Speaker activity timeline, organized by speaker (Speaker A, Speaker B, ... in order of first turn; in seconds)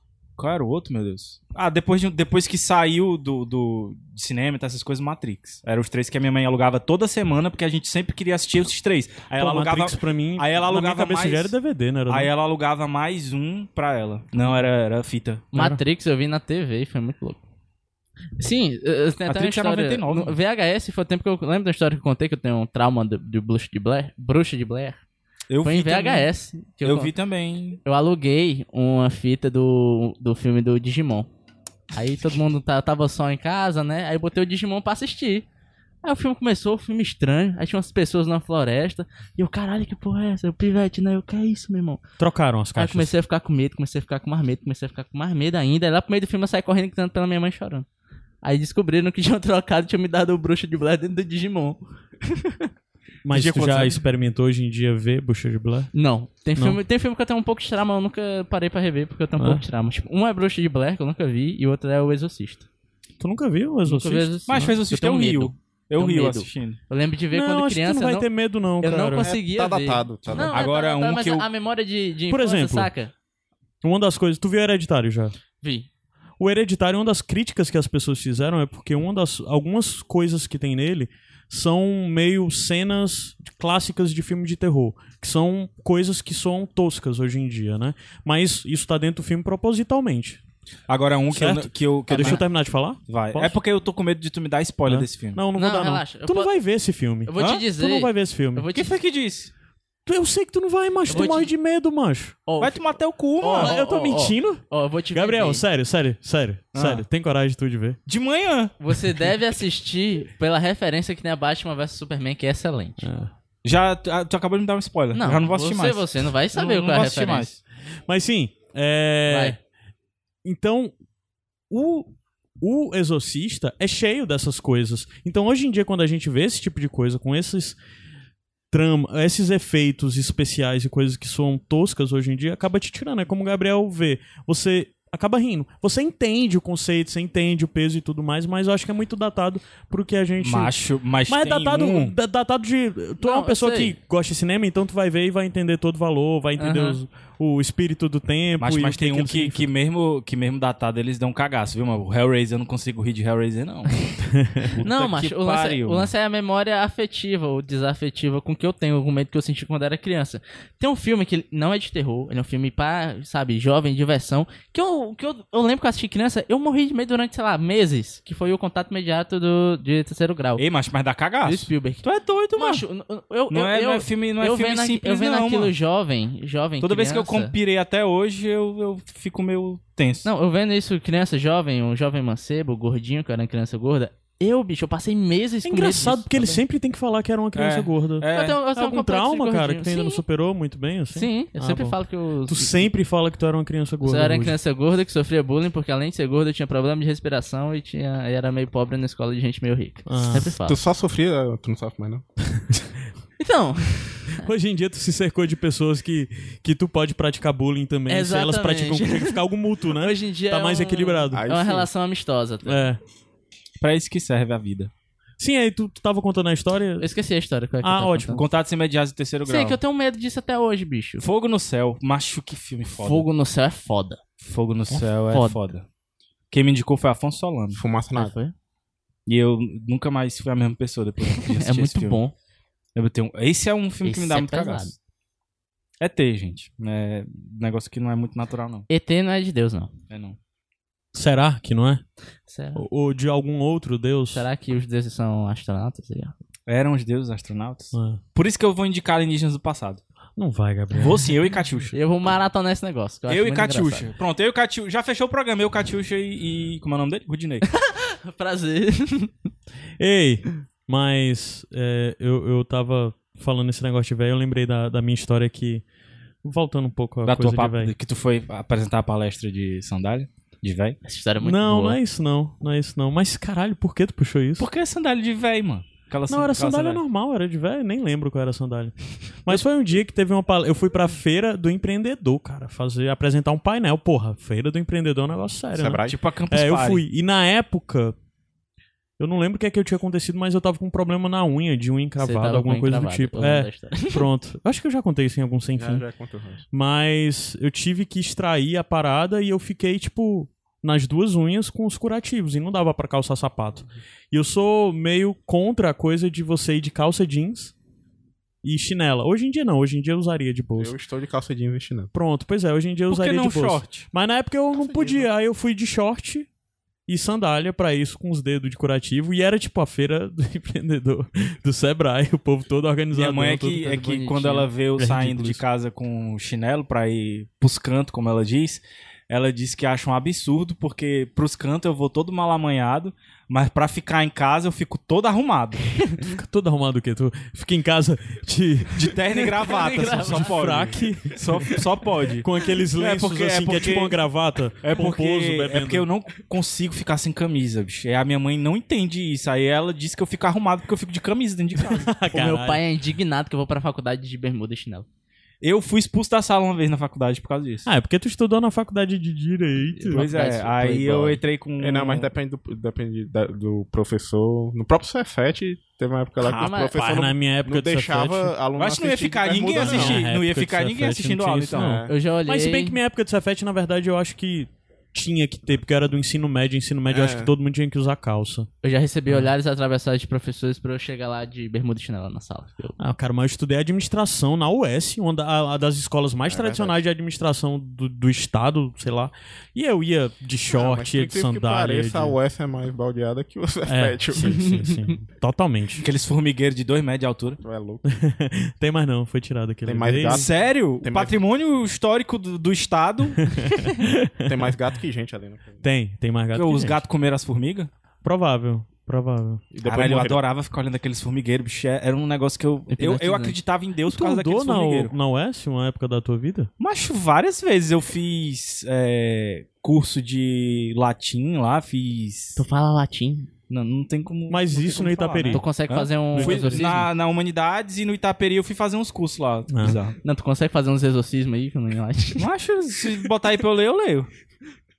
Speaker A: 0.4-11.5, 12.1-15.5, 19.3-20.4, 25.5-26.3, 26.8-27.8, 53.3-54.0, 64.5-66.8, 70.5-71.5, 90.9-92.4, 93.1-95.4, 97.4-97.6, 98.7-99.5, 102.6-103.8, 106.7-107.0, 108.1-108.8, 113.6-117.6, 140.4-142.1, 148.6-156.1, 170.6-172.8, 173.5-175.7, 176.8-180.2, 187.5-188.6, 213.8-214.9, 218.3-219.8, 221.2-223.3, 224.4-225.8, 226.5-227.8, 229.2-232.2, 232.9-234.9, 236.0-238.9, 240.1-240.4, 246.7-250.0, 250.9-251.9, 253.3-257.6, 267.2-271.0, 274.6-277.0, 286.1-287.0, 313.1-314.1, 323.1-335.9, 338.9-344.2, 344.8-352.1, 355.6-357.9, 360.1-362.3, 368.7-372.0, 396.0-397.6, 400.3-403.5, 406.5-407.9, 409.8-415.1, 416.8-422.6, 423.7-430.2, 432.4-434.3
Speaker B: 9.4-12.3, 15.5-15.8, 42.2-43.1, 53.2-55.9, 63.2-64.8, 67.3-69.2, 72.3-72.9, 73.8-75.3, 76.4-90.4, 91.3-93.5, 94.9-98.7, 100.0-102.4, 103.4-108.0, 113.0-113.3, 118.1-119.6, 120.4-120.9, 121.7-127.8, 128.7-140.7, 141.3-149.7, 154.3-154.7, 185.6-194.6, 200.1-200.5, 204.4-211.4, 212.6-213.0, 215.4-217.1, 217.8-218.4, 241.1-242.0, 242.7-244.4, 247.9-248.2, 250.4-251.3, 260.0-265.8, 266.4-267.9, 271.4-274.7, 276.3-288.1, 289.2-296.0, 296.7-307.7, 308.6-310.9, 312.1-316.5, 317.1-324.0, 325.0-325.6, 336.2-341.8, 342.4-346.1, 351.8-352.8, 357.9-360.3, 366.4-368.5, 369.7-378.7, 383.0-392.4, 393.9-396.0, 398.1-400.5, 403.4-404.7, 405.8-407.0, 408.2-409.6, 414.1-416.7, 424.5-425.6, 426.3-426.9, 429.7-430.0
Speaker C: 15.5-17.4, 18.4-25.0, 25.6-27.1, 27.8-31.3, 31.9-35.5, 36.0-42.0, 42.7-47.9, 48.4-52.7, 55.9-62.7, 63.8-68.3, 68.8-73.1, 75.6-75.9, 92.1-92.4, 95.5-96.5, 97.2-99.0, 101.1-101.5, 102.5-102.9, 103.4-105.6, 108.8-113.1, 115.1-117.5, 119.3-119.6, 143.2-143.9, 146.6-147.0, 154.8-170.6, 171.4-172.0, 172.6-177.5, 180.2-186.6, 188.3-190.2, 191.1-192.8, 194.0-200.8, 203.4-204.4, 208.1-212.8, 217.0-218.4, 219.4-221.2, 223.0-224.2, 224.9-225.6, 228.1-228.5, 231.4-232.3, 234.0-234.9, 238.9-239.9, 242.5-242.8, 244.3-246.3, 251.9-254.1, 257.7-259.3, 271.0-272.0, 292.2-294.2, 323.8-324.7, 339.4-340.6, 352.3-355.1, 360.0-361.4, 366.5-367.0, 372.1-373.0, 378.8-383.0, 394.5-395.1, 412.9-413.6, 422.6-423.5, 425.5-427.1, 430.2-432.4
Speaker D: 69.2-70.7, 200.5-202.2, 211.3-211.9, 227.7-228.3, 285.7-286.1, 295.8-296.6, 310.8-312.1, 314.7-315.2, 361.8-370.2, 371.7-372.1, 377.1-377.5, 386.5-387.0, 390.7-394.8, 397.6-398.0, 399.9-401.4, 404.4-405.8, 409.7-410.4